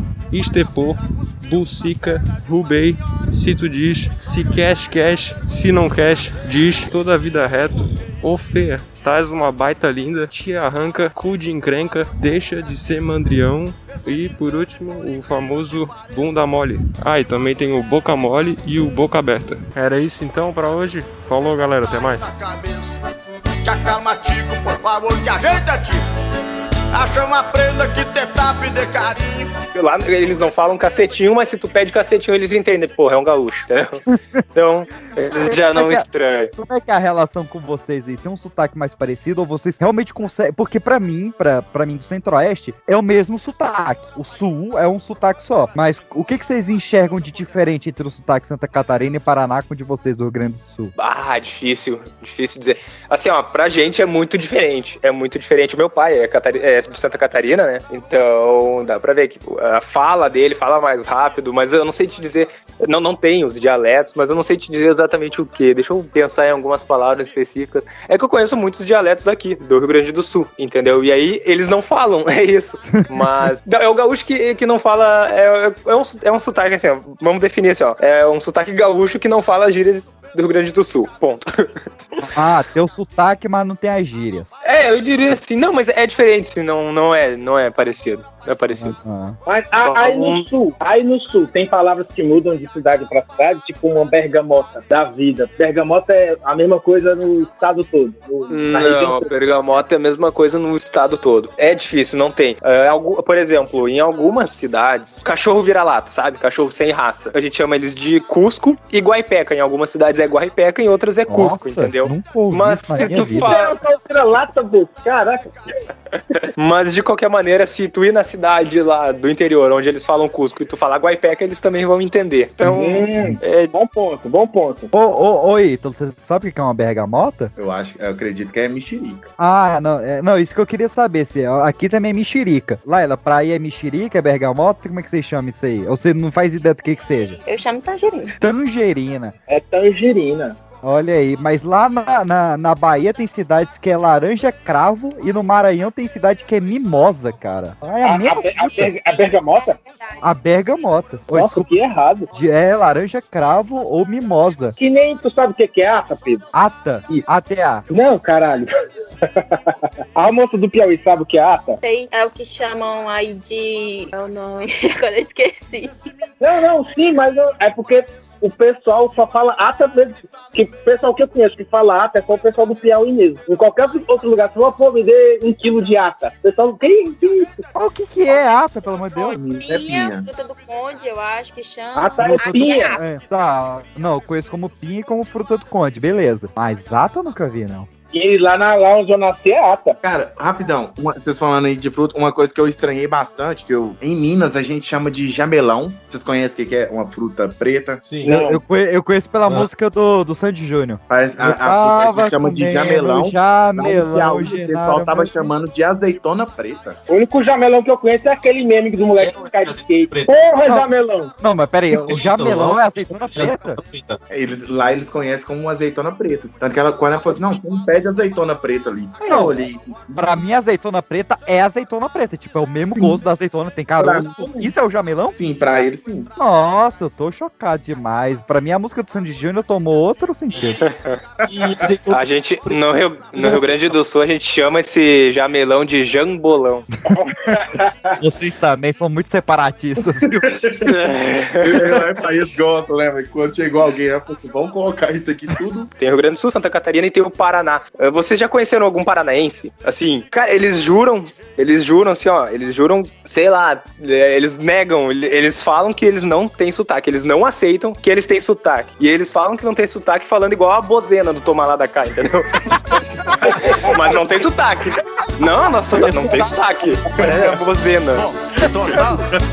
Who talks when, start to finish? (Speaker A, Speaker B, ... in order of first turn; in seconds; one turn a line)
Speaker A: 0.3-22.2
Speaker B: 22.1-22.9
Speaker B: 23.6-26.1
Speaker B: 26.9-29.5
Speaker C: 29.7-34.0
Speaker C: 34.5-36.5
Speaker D: 35.3-50.9
Speaker C: 51.0-81.7
Speaker D: 82.2-84.5
Speaker C: 84.6-88.9
Speaker D: 88.8-89.4
Speaker E: 89.5-99.3
Speaker C: 89.8-90.5
Speaker C: 98.5-113.7
Speaker D: 111.3-113.6
Speaker E: 113.2-115.6
Speaker C: 116.6-123.7
Speaker E: 122.6-124.9
Speaker D: 124.9-127.5
Speaker F: 127.6-129.3
Speaker D: 129.4-137.4
Speaker G: 137.4-138.3
Speaker D: 138.4-139.3
Speaker E: 139.5-140.6
Speaker D: 140.8-148.9
Speaker E: 148.0-149.8
Speaker G: 148.5-150.2
Speaker D: 150.2-151.8
Speaker E: 151.3-152.3
Speaker D: 152.3-154.8
Speaker E: 154.8-156.4
Speaker D: 156.5-157.9
Speaker E: 157.9-158.7
Speaker E: 159.5-161.8
Speaker G: 161.8-166.0
Speaker E: 166.4-177.6
Speaker D: 177.7-179.4
Speaker G: 179.2-183.0
Speaker F: 179.4-180.2
Speaker E: 181.9-182.9
Speaker D: 182.2-187.9
Speaker E: 188.1-190.0
Speaker F: 190.0-198.0
Speaker H: 198.0-198.4
Speaker E: 198.3-198.5
Speaker D: 198.3-205.5
Speaker F: 201.1-207.0
Speaker E: 207.1-211.3
Speaker H: 209.2-210.3
Speaker D: 211.4-213.8
Speaker H: 211.9-214.2
Speaker F: 214.3-220.3
Speaker D: 219.3-219.6
Speaker D: 220.2-230.8
Speaker F: 224.0-224.7
Speaker F: 225.4-226.3
Speaker C: 230.9-231.2
Speaker H: 231.4-232.8
Speaker C: 232.1-236.9
Speaker E: 237.1-238.2
Speaker D: 238.2-240.5
Speaker F: 240.4-240.9
Speaker C: 240.9-241.8
Speaker F: 241.6-245.9
Speaker C: 246.0-262.6
Speaker C: 263.4-268.2
Speaker D: 266.2-266.6
Speaker B: 268.1-269.2